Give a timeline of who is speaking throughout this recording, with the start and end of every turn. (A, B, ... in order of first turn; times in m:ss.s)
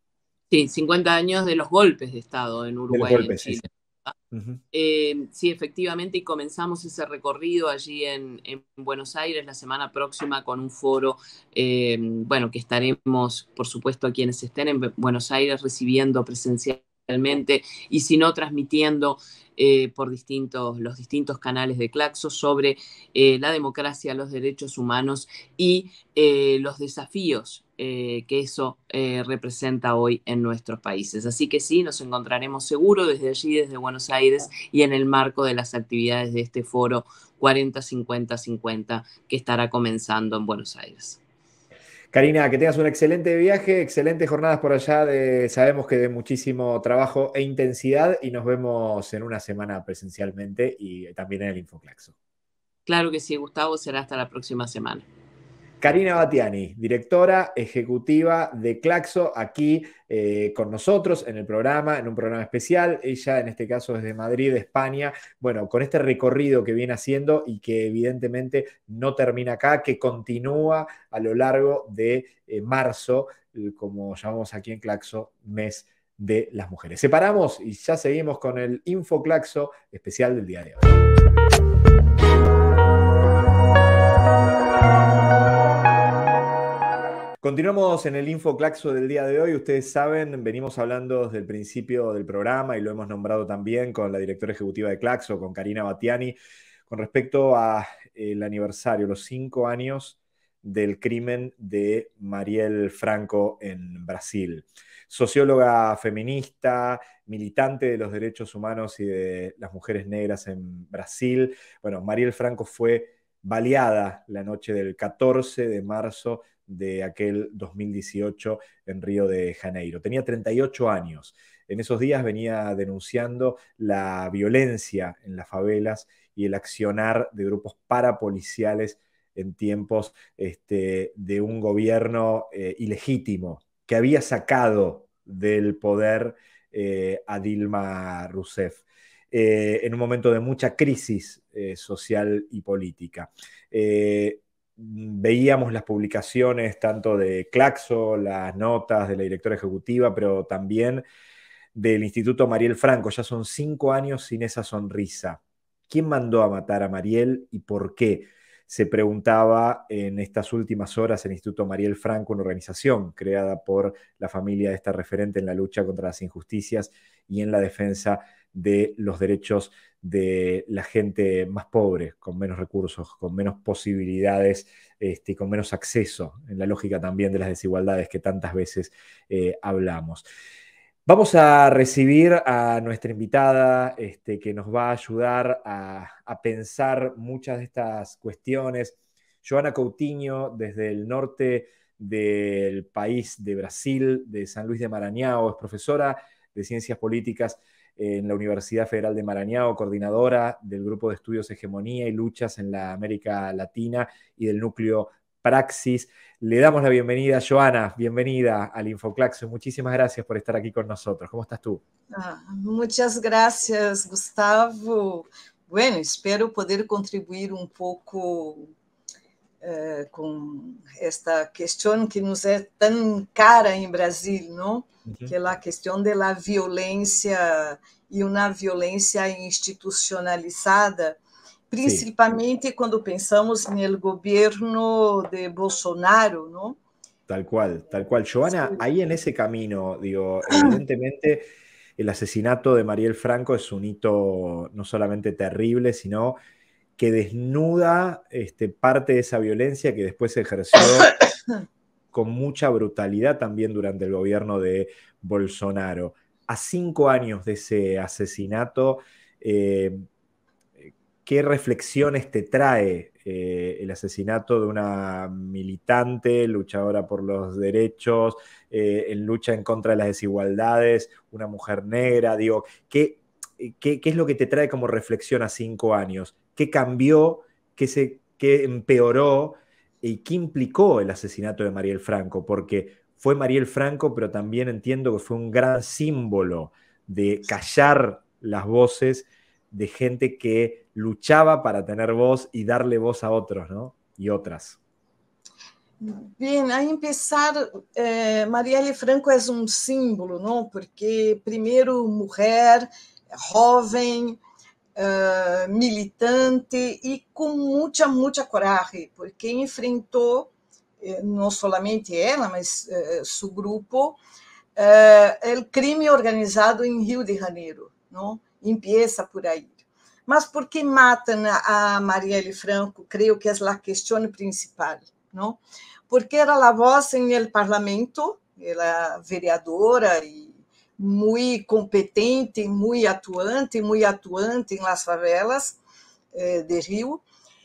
0:00.5-0:04.1 A
0:02.9-0:03.6 B
0:04.3-0:04.6 B
0:04.7-0:41.2 A
0:42.1-0:52.1 B
0:52.8-0:55.0 A
0:55.8-1:20.9 B
1:27.4-1:36.4 B
1:36.9-2:31.0 B
2:31.7-3:00.2 B
3:01.0-3:31.8 B
3:32.1-3:38.7 C
3:39.6-3:51.2 C
3:45.1-3:45.3 B
3:51.7-3:56.8 C
3:57.3-4:01.4 B
3:58.4-3:58.8 C
4:00.5-4:00.8 C
4:02.0-4:06.4 B
4:07.0-4:11.1 B
4:12.1-4:20.0 B
4:20.8-4:54.8 B
4:56.0-5:04.4 C
5:05.0-5:10.5 C
5:11.0-5:14.2 C
5:14.8-5:19.7 C
5:20.3-5:35.8 C
5:36.3-5:37.2 C